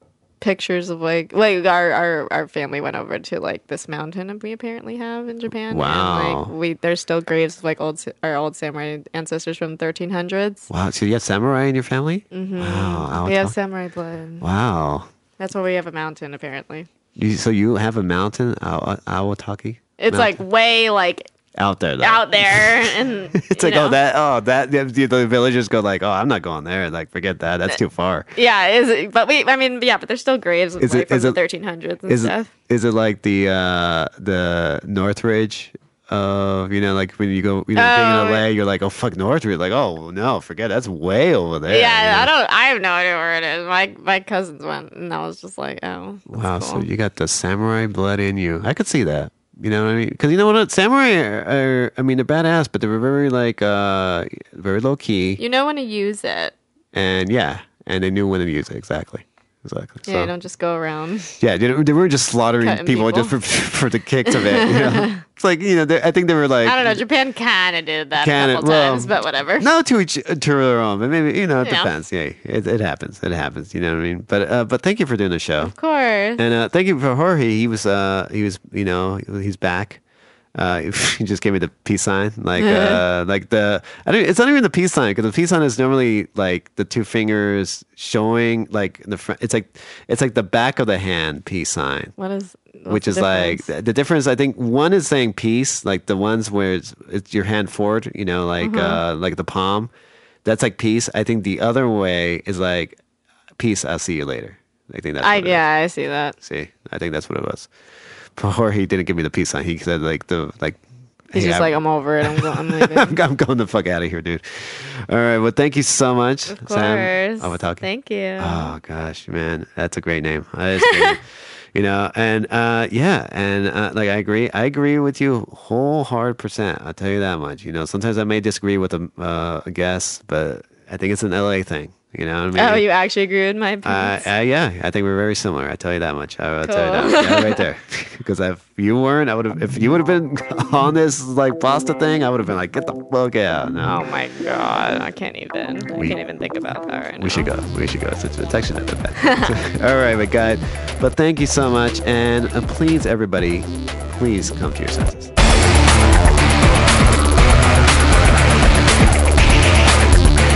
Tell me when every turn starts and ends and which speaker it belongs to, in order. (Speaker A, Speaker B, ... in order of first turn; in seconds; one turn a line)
Speaker A: 0.4-10.7
Speaker B: 5.7-6.5
Speaker B: 10.7-13.6
Speaker A: 12.3-14.4
Speaker B: 14.4-15.1
Speaker A: 15.4-16.9
Speaker B: 17.2-20.4
Speaker A: 20.0-21.3
Speaker B: 21.6-28.3
Speaker A: 22.0-23.9
Speaker A: 28.3-32.5
Speaker B: 30.8-31.4
Speaker B: 32.1-42.3
Speaker A: 37.7-38.4
Speaker A: 41.7-46.9
Speaker B: 46.3-55.4
Speaker A: 55.4-56.5
Speaker B: 56.9-60.3
Speaker A: 60.0-61.3
Speaker B: 61.4-67.0
Speaker A: 62.6-63.3
Speaker A: 64.3-65.2
Speaker A: 66.6-69.7
Speaker B: 68.2-75.7
Speaker A: 71.6-71.9
Speaker A: 75.6-76.4
Speaker B: 76.4-80.0
Speaker B: 80.5-92.1
Speaker A: 82.6-83.0
Speaker A: 92.2-93.7
Speaker B: 92.9-99.9
Speaker A: 98.6-99.0
Speaker B: 100.4-103.0
Speaker B: 103.6-105.6
Speaker A: 105.2-106.4
Speaker B: 106.4-107.7
Speaker B: 108.4-117.9
Speaker A: 111.3-113.2
Speaker A: 116.5-118.7
Speaker B: 118.4-132.8
Speaker A: 120.9-121.2
Speaker A: 132.6-134.3
Speaker B: 133.8-144.0
Speaker A: 136.6-137.6
Speaker A: 143.8-147.5
Speaker B: 145.9-146.2
Speaker B: 147.2-155.3
Speaker A: 149.2-149.5